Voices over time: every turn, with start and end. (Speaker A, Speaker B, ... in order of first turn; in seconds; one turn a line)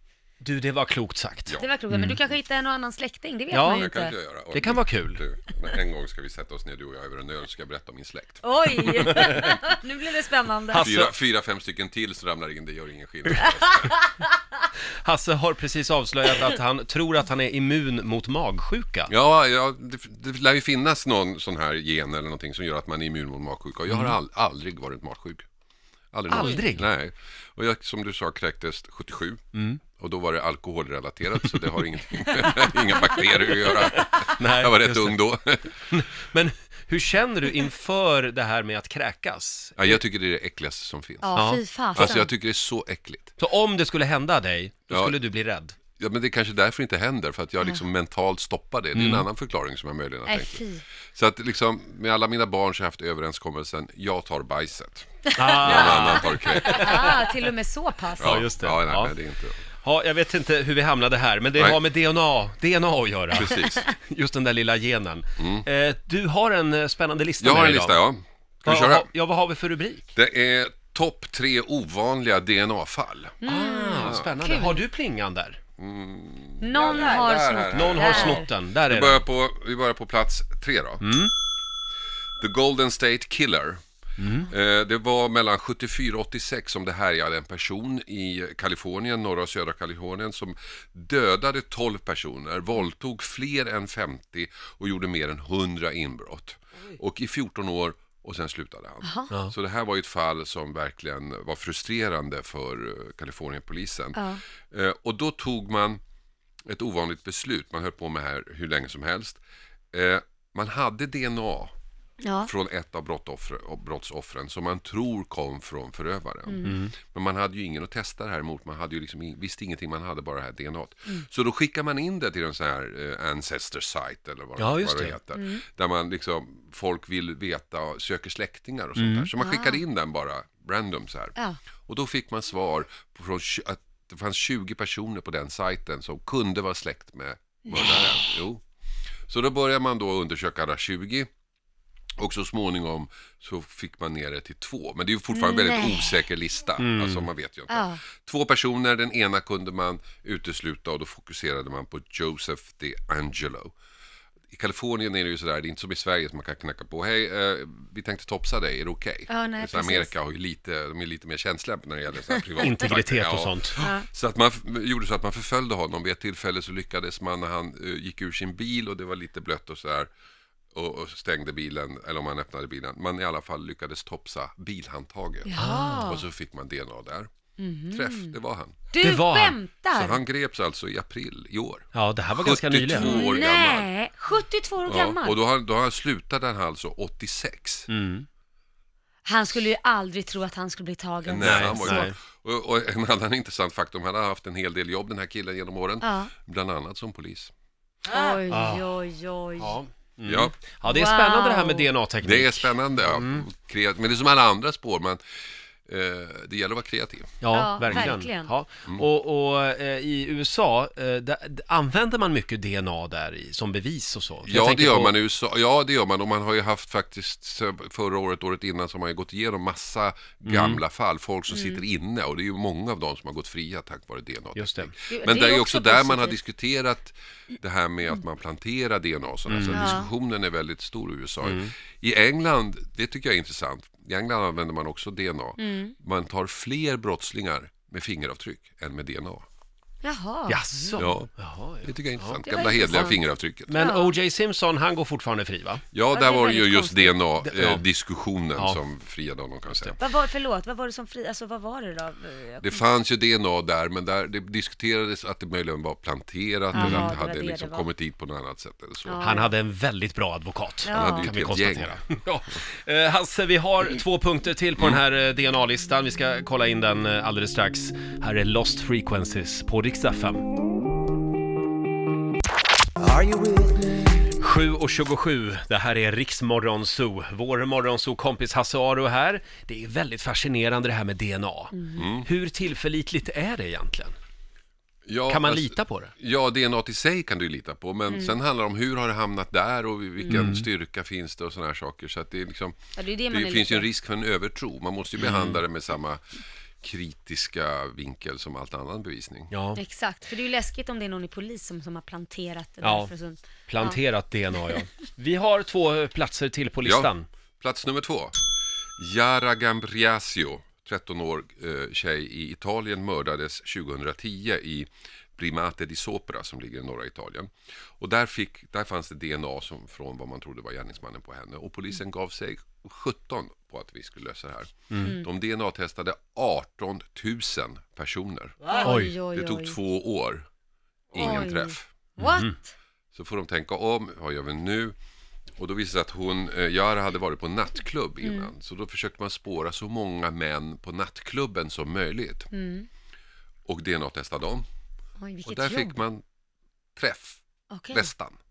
Speaker A: 0.4-2.1
Speaker B: 1.6-4.1
Speaker A: 3.5-3.9
Speaker C: 3.7-9.5
Speaker A: 4.5-5.2
Speaker B: 8.4-10.9
Speaker A: 9.0-9.3
Speaker A: 10.7-11.1
Speaker C: 10.7-13.9
Speaker B: 13.4-13.9
Speaker A: 15.0-19.1
Speaker C: 19.1-25.4
Speaker A: 23.9-24.1
Speaker C: 26.1-29.4
Speaker A: 26.3-26.9
Speaker A: 29.5-29.8
Speaker C: 30.0-35.7
Speaker A: 33.2-35.2
Speaker A: 35.9-40.0
Speaker C: 39.8-41.4
Speaker B: 41.2-42.3
Speaker A: 41.3-42.3
Speaker C: 41.9-43.3
Speaker A: 43.4-45.7
Speaker C: 44.9-45.2
Speaker C: 46.0-57.2
Speaker A: 48.9-49.2
Speaker B: 50.2-50.8
Speaker A: 55.4-57.2
Speaker B: 55.6-58.5
Speaker C: 58.2-59.6
Speaker A: 58.2-59.1
Speaker A: 59.8-68.0
Speaker C: 63.3-63.9
Speaker C: 65.4-65.7
Speaker C: 67.4-69.1
Speaker A: 68.6-70.1
Speaker C: 70.1-73.4
Speaker B: 73.4-74.8
Speaker A: 73.4-75.6
Speaker C: 74.0-74.3
Speaker C: 75.8-81.1
Speaker B: 76.6-78.5
Speaker A: 77.7-79.2
Speaker A: 81.0-81.3
Speaker C: 82.4-83.8
Speaker A: 84.2-84.5
Speaker C: 84.5-106.0
Speaker B: 99.0-99.3
Speaker B: 104.1-104.4
Speaker C: 106.7-111.7
Speaker B: 112.2-112.5
Speaker C: 112.4-138.6
Speaker B: 116.5-116.8
Speaker A: 116.6-116.9
Speaker A: 124.6-125.2
Speaker B: 125.3-125.6
Speaker A: 129.0-129.3
Speaker B: 129.4-129.8
Speaker C: 139.3-141.3
Speaker C: 142.2-153.7
Speaker B: 145.3-146.2
Speaker A: 146.8-147.3
Speaker B: 147.7-148.0
Speaker C: 154.5-170.1
Speaker B: 159.3-160.1
Speaker A: 162.6-163.8
Speaker B: 163.8-164.0
Speaker C: 170.7-177.3
Speaker B: 175.4-176.2
Speaker A: 175.6-176.2
Speaker B: 177.6-178.3
Speaker C: 177.9-178.8
Speaker B: 178.9-180.2
Speaker A: 179.0-179.6
Speaker C: 179.9-183.9
Speaker A: 181.9-183.2
Speaker B: 182.9-185.3
Speaker C: 184.8-187.9
Speaker A: 187.9-188.3
Speaker B: 189.2-192.1
Speaker C: 191.2-197.5
Speaker A: 191.4-192.2
Speaker B: 196.0-196.3
Speaker B: 198.1-199.8
Speaker A: 198.5-198.9
Speaker A: 199.6-203.4
Speaker C: 200.2-200.5
Speaker B: 200.8-201.9
Speaker C: 202.2-205.2
Speaker C: 205.8-208.1
Speaker A: 207.4-215.1
Speaker B: 207.5-208.5
Speaker C: 214.4-239.4
Speaker A: 220.4-220.8
Speaker B: 221.5-221.8
Speaker A: 224.6-224.9
Speaker B: 225.1-226.4
Speaker A: 229.5-230.0
Speaker B: 229.7-230.1
Speaker A: 231.4-231.7
Speaker B: 235.6-235.9
Speaker B: 240.0-241.1
Speaker A: 240.5-243.1
Speaker C: 241.0-243.8
Speaker B: 242.4-243.2
Speaker A: 243.7-245.8
Speaker B: 243.7-244.1
Speaker C: 245.9-250.0
Speaker B: 246.1-247.3
Speaker A: 247.4-247.8
Speaker A: 249.7-249.9
Speaker B: 250.0-252.8
Speaker C: 252.6-259.2
Speaker B: 256.7-257.9
Speaker A: 256.7-257.1
Speaker B: 259.0-259.5
Speaker A: 259.2-270.5
Speaker B: 260.9-261.3
Speaker C: 260.9-262.6
Speaker C: 264.8-265.0
Speaker A: 273.0-284.1
Speaker B: 281.7-282.1
Speaker C: 281.9-282.3
Speaker C: 285.1-292.8
Speaker A: 285.3-286.1
Speaker B: 288.1-288.4
Speaker A: 290.3-290.7
Speaker B: 292.9-293.9
Speaker C: 293.3-296.2
Speaker A: 295.2-295.6
Speaker C: 296.8-299.5
Speaker A: 299.5-299.8
Speaker B: 299.8-304.0
Speaker A: 302.8-303.1
Speaker A: 303.6-307.3
Speaker C: 306.8-308.3
Speaker C: 309.0-330.5
Speaker A: 324.9-325.2
Speaker B: 325.0-325.3
Speaker B: 328.7-329.8
Speaker A: 328.8-329.1
Speaker C: 331.1-331.9
Speaker B: 331.1-332.7
Speaker A: 332.2-332.5
Speaker C: 333.1-334.9
Speaker C: 335.6-342.5
Speaker B: 338.2-338.5
Speaker B: 342.5-342.9
Speaker C: 343.6-344.6
Speaker B: 345.2-345.9
Speaker C: 345.4-346.2
Speaker C: 346.9-348.3
Speaker B: 347.7-348.1